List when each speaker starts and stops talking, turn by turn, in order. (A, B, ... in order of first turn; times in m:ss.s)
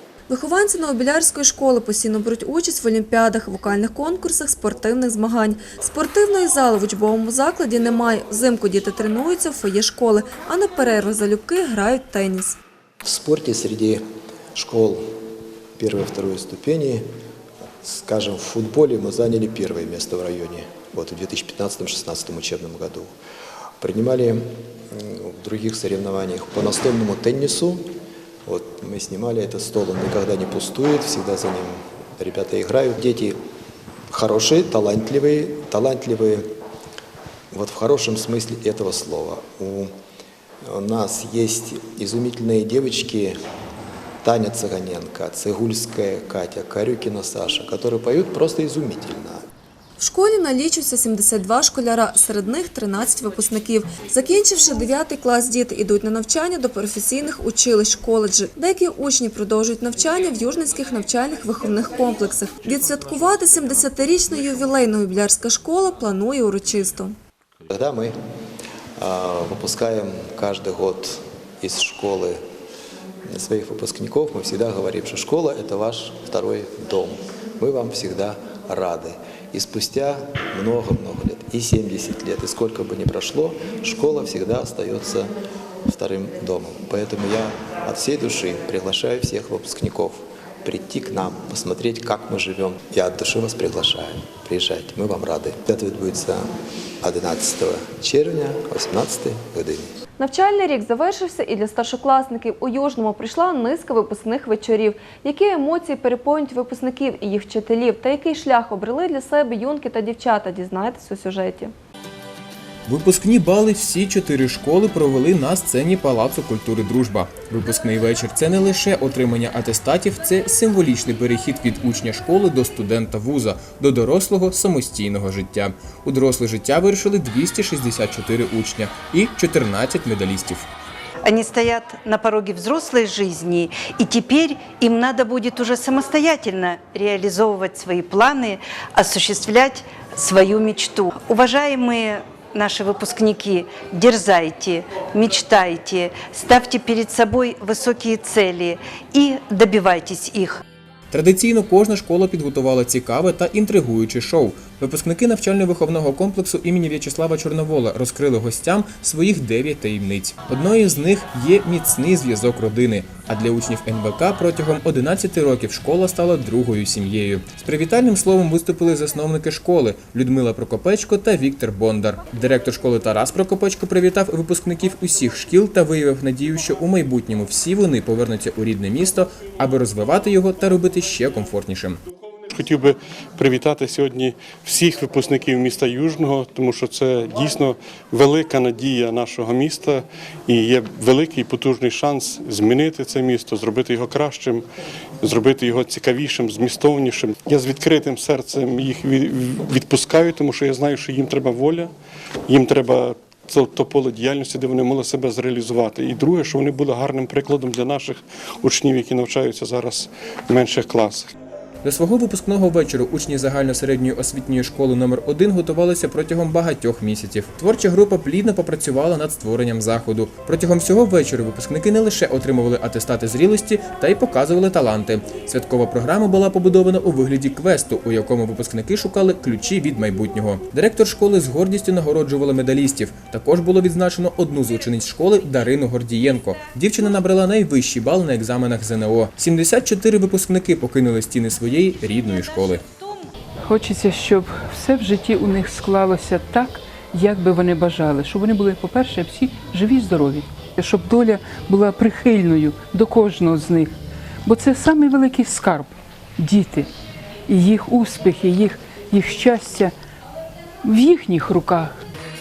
0:00.3-0:12.6 A
0:13.0-0:14.0 B
0:14.6-0:15.0 B
0:15.8-0:17.1 B
0:17.8-0:23.1 B
0:23.8-0:27.9 B
0:28.5-0:33.4 B
0:34.1-0:36.5 B
0:37.5-0:39.9 B
0:40.7-0:43.4 B
0:44.2-0:49.4 B
0:50.0-1:07.1 A
1:07.7-1:08.2 B
1:09.0-1:12.4 B
1:13.3-1:25.3 B
1:25.9-1:36.4 B
1:37.0-1:39.9 B
1:40.2-1:51.7 A
1:52.9-2:10.7 C
2:11.2-2:30.6 D
2:31.1-3:02.0 C
3:02.5-3:14.6 E
3:15.2-3:21.9 E
3:22.5-3:31.3 E
3:31.8-4:02.8 C
4:03.6-4:16.9 F
4:17.5-4:19.9 F
4:20.8-4:22.0 F